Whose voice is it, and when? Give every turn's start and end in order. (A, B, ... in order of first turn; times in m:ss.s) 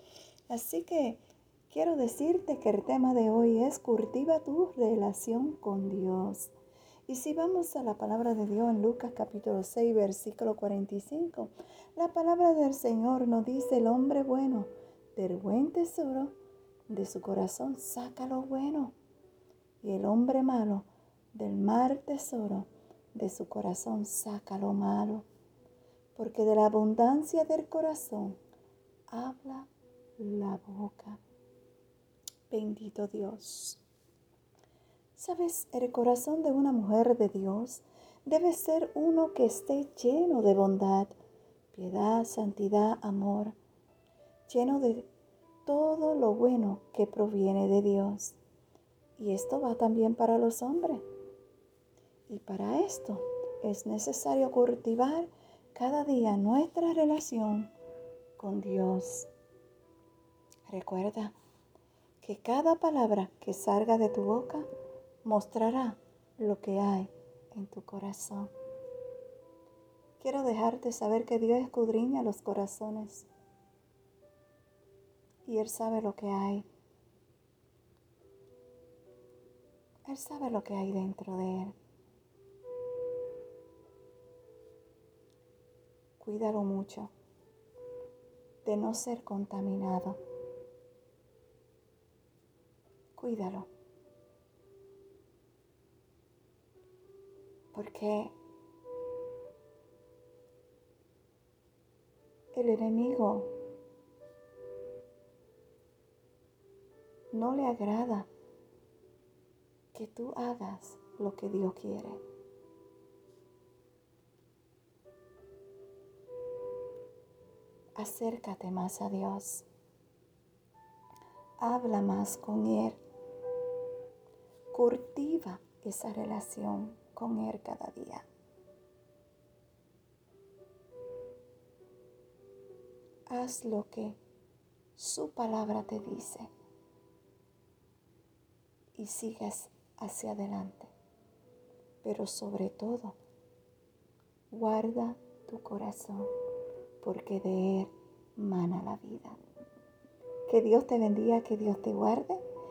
0:00.5-0:06.5 A
0:07.1-0:16.3 A
0:16.9-0:18.9 A
0:19.8-0:25.2 A
0:26.2-0:28.4 A
0:29.1-0:31.2 A
0:32.5-0:33.8 A
0:35.2-0:41.2 A
0:41.7-0:43.6 A
0:44.5-0:45.1 A
0:45.6-0:48.4 A
0:49.2-0:51.0 A
0:52.3-0:57.7 A
0:58.4-0:59.3 A
1:00.7-1:01.4 A
1:02.2-1:04.7 A
1:05.2-1:08.5 A
1:10.2-1:13.3 A
1:15.4-1:16.6 A
1:20.1-1:21.8 A
1:26.2-1:27.1 A
1:28.6-1:30.2 A
1:33.2-1:33.7 A
1:37.7-1:38.4 A
1:42.5-1:43.5 A
1:47.3-1:48.3 A
1:49.9-1:52.2 A
1:58.0-1:59.7 A
2:01.6-2:03.0 A
2:04.7-2:08.3 A
2:13.3-2:14.2 A
2:15.0-2:16.5 A
2:19.0-2:20.9 A
2:22.0-2:23.2 A
2:24.5-2:26.3 A
2:27.0-2:29.4 A
2:30.5-2:32.4 A